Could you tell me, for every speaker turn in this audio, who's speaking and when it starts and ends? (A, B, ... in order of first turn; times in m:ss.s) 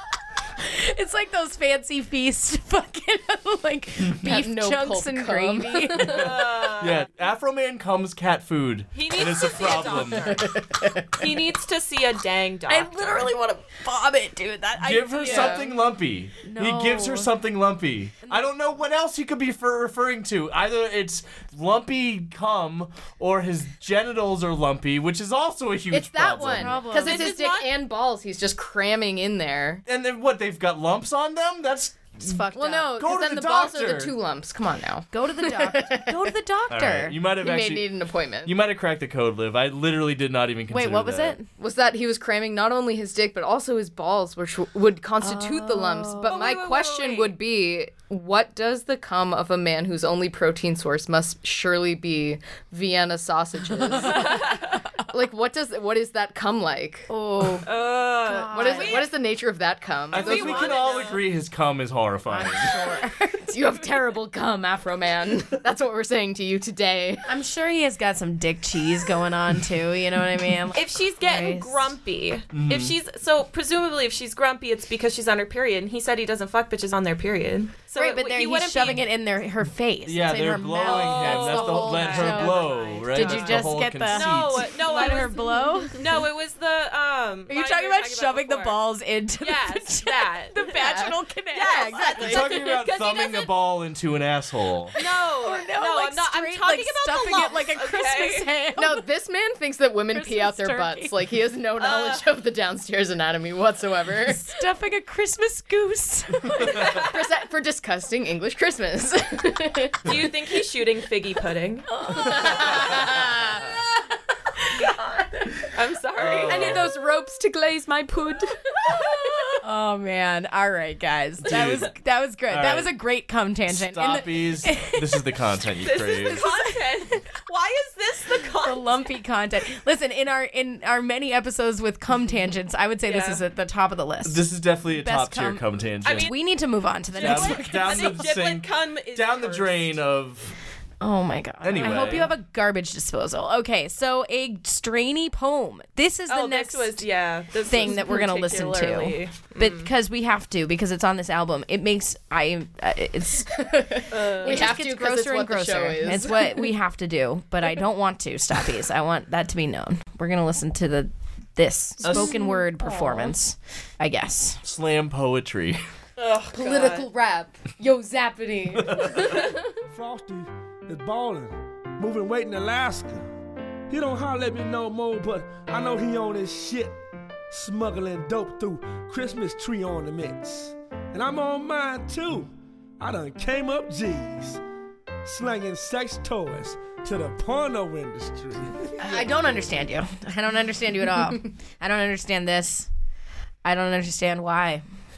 0:00.6-0:06.2 A
0:04.2-0:06.2 B
0:06.1-0:07.0 C
0:06.1-0:10.5 D
0:08.9-0:10.5 C
0:11.2-0:13.2 C
0:12.7-0:15.6 A
0:14.8-0:26.8 D
0:15.2-0:15.6 C
0:16.4-0:17.3 A
0:25.9-0:29.8 B
0:26.6-0:27.3 A
0:27.0-0:27.7 C
0:29.9-0:32.2 D
0:32.2-0:32.9 A
0:32.5-0:36.2 B
0:33.0-0:34.2 D
0:35.1-0:37.2 A
0:36.7-0:37.9 D
0:37.4-0:38.5 B
0:38.4-0:41.4 D
0:40.7-0:41.5 A
0:41.6-0:57.1 B
0:45.2-0:46.4 A
0:46.3-0:47.3 C
0:54.3-0:54.6 C
0:57.1-0:57.7 A
0:57.6-0:59.1 C
0:58.2-0:59.1 A
0:58.5-1:00.8 B
1:00.1-1:01.2 C
1:00.1-1:02.7 D
1:02.3-1:03.5 A
1:03.5-1:07.3 B
1:07.3-1:11.9 A
1:10.7-1:19.0 C
1:12.5-1:13.0 D
1:18.0-1:26.0 A
1:20.1-1:24.9 D
1:20.8-1:28.8 C
1:27.5-1:32.5 A
1:29.4-1:33.5 C
1:30.8-1:31.1 B
1:32.1-1:34.9 D
1:35.0-1:38.5 C
1:35.0-1:39.1 A
1:38.8-1:44.4 B
1:40.1-1:41.1 A
1:41.8-1:42.3 C
1:44.3-1:46.8 A
1:47.0-1:50.0 B
1:50.1-1:51.9 C
1:52.0-1:52.8 A
1:52.3-1:53.6 B
1:55.7-1:56.8 C
1:56.2-1:56.9 D
1:56.5-1:59.1 B
1:59.6-2:05.2 A
2:01.4-2:01.9 D
2:02.5-2:02.9 D
2:03.7-2:06.5 D
2:05.8-2:09.0 C
2:06.3-2:06.8 A
2:08.6-2:15.6 A
2:13.1-2:13.4 C
2:14.2-2:16.3 D
2:16.0-2:16.4 C
2:16.2-2:18.3 A
2:17.1-2:20.0 C
2:17.2-2:20.6 D
2:21.0-2:27.0 A
2:21.6-2:22.3 D
2:21.8-2:22.2 C
2:26.3-2:29.9 C
2:27.7-2:44.6 A
2:33.6-2:36.7 B
2:34.1-2:34.7 C
2:42.0-2:42.4 D
2:44.6-2:45.8 D
2:46.2-2:47.1 C
2:46.5-2:48.9 B
2:48.8-2:49.3 D
2:49.9-2:53.2 E
2:53.9-2:57.0 E
2:57.5-3:04.6 E
3:05.2-3:09.0 E
3:09.0-3:12.9 A
3:13.6-3:14.8 A